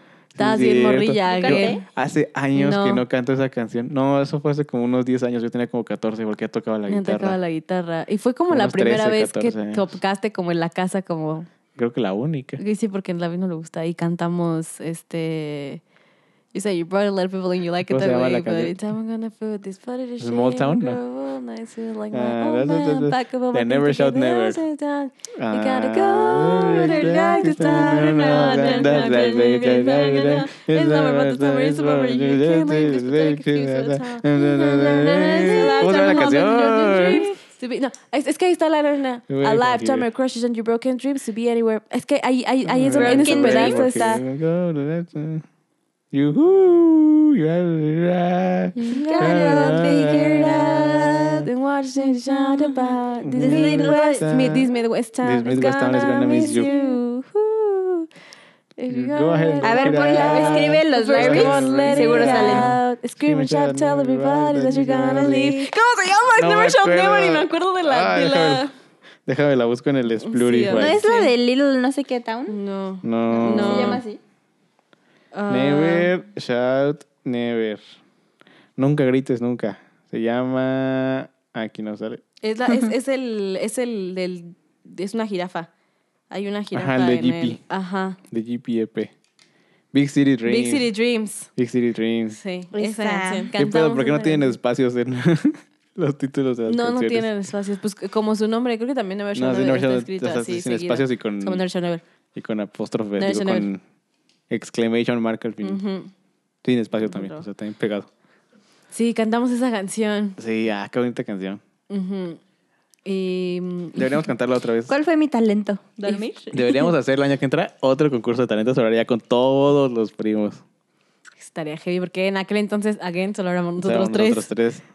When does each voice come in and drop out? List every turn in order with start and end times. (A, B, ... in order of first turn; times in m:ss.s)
0:00.3-0:07.4 A
0:00.4-0:01.8 B
0:01.2-0:01.8 C
0:02.5-0:03.0 B
0:06.9-0:11.5 B
0:08.5-0:09.9 A
0:11.8-0:12.6 A
0:12.6-0:15.8 B
0:16.5-0:44.2 B
0:17.9-0:18.8 A
0:20.2-0:21.0 A
0:22.1-0:24.6 A
0:25.3-0:37.2 A
0:26.6-0:30.4 C
0:35.3-0:37.1 C
0:39.3-0:40.0 A
0:42.6-0:45.4 A
0:42.9-0:44.2 C
0:46.1-0:51.4 A
0:48.8-0:50.1 B
0:48.8-0:51.4 C
0:51.4-0:58.1 B
0:52.1-0:54.6 C
0:53.2-0:54.7 A
0:55.2-0:56.7 A
0:56.4-0:57.0 C
0:58.8-1:08.7 B
0:58.9-1:05.7 A
0:59.6-1:02.8 C
1:06.3-1:08.7 A
1:09.2-1:11.0 A
1:10.2-1:11.3 B
1:10.7-1:12.6 C
1:12.5-1:14.0 B
1:13.0-1:14.0 A
1:13.3-1:14.2 C
1:15.3-1:16.1 B
1:15.5-1:17.8 A
1:18.8-1:22.2 A
1:22.4-1:25.7 B
1:22.7-1:22.9 C
1:26.3-1:28.2 B
1:26.7-1:27.6 A
1:28.3-1:29.1 A
1:29.9-1:30.9 A
1:30.4-1:31.5 B
1:31.6-1:32.4 A
1:32.3-1:34.6 B
1:32.7-1:33.6 C
1:33.6-1:37.3 A
1:36.7-1:42.0 B
1:39.3-1:41.6 A
1:42.3-1:43.8 A
1:43.2-1:43.7 B
1:44.5-1:45.8 A
1:45.6-1:46.1 B
1:46.6-1:48.1 A
1:47.0-1:47.4 B
1:48.9-1:50.4 B
1:50.4-1:51.6 A
1:51.9-1:52.4 B
1:53.0-1:54.2 B
1:53.9-1:54.9 A
1:54.9-1:56.8 C
1:56.0-1:56.3 B
1:56.5-2:00.6 A
2:01.4-2:04.5 B
2:03.8-2:04.8 A